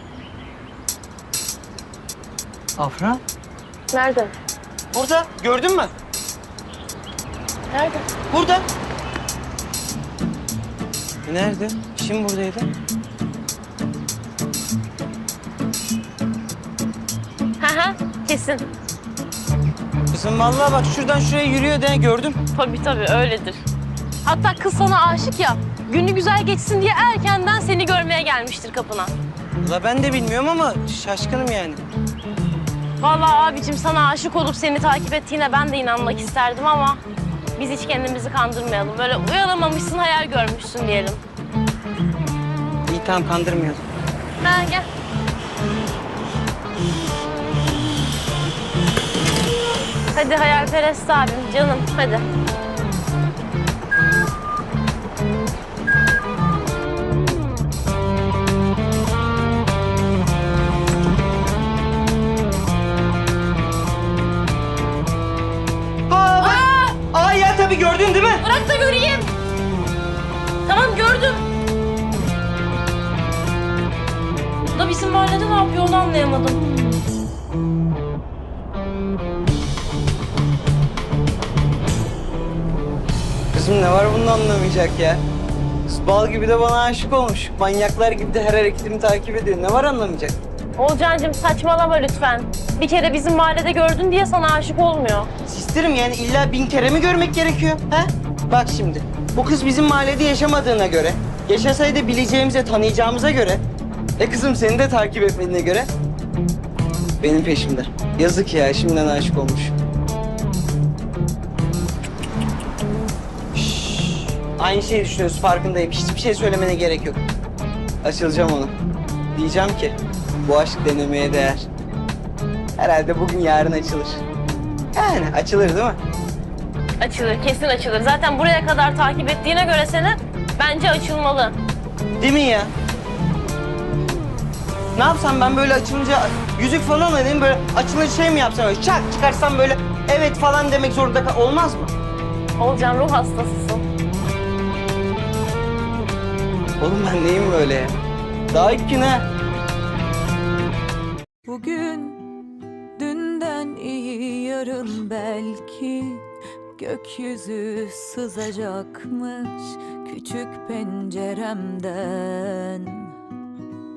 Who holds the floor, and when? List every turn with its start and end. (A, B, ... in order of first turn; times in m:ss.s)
0:02.8-0:03.2 A
0:03.9-0:04.3 B
0:04.9-0:05.9 A
0:07.7-0:08.1 B
0:08.3-0:08.6 A
0:11.3-0:12.7 A
0:17.6-0:18.7 B
0:20.1-0:22.4 A
0:22.5-0:23.6 B
0:24.2-0:29.1 B
0:29.6-0:31.8 A
0:33.0-0:37.0 B
0:37.6-0:41.2 B
0:42.9-0:43.8 A
0:44.4-0:44.9 B
0:50.1-0:52.3 B
1:06.1-1:08.4 A
1:06.4-1:07.0 B
1:08.4-1:09.3 B
1:10.6-1:11.4 B
1:14.7-1:16.6 B
1:23.5-1:25.2 A
1:25.9-1:30.4 A
1:30.8-1:35.3 B
1:35.5-1:43.6 A
1:44.2-1:45.9 A
1:47.2-1:49.8 A
1:53.5-1:57.2 A
1:58.0-1:58.7 A
1:59.4-2:01.7 A
2:02.8-2:04.2 A
2:05.0-2:06.0 A
2:07.0-2:11.6 B
2:12.2-2:12.7 A
2:14.9-2:21.9 A
2:22.6-2:23.8 B
2:26.8-2:27.9 A
2:28.5-2:29.3 A
2:31.5-2:43.2 C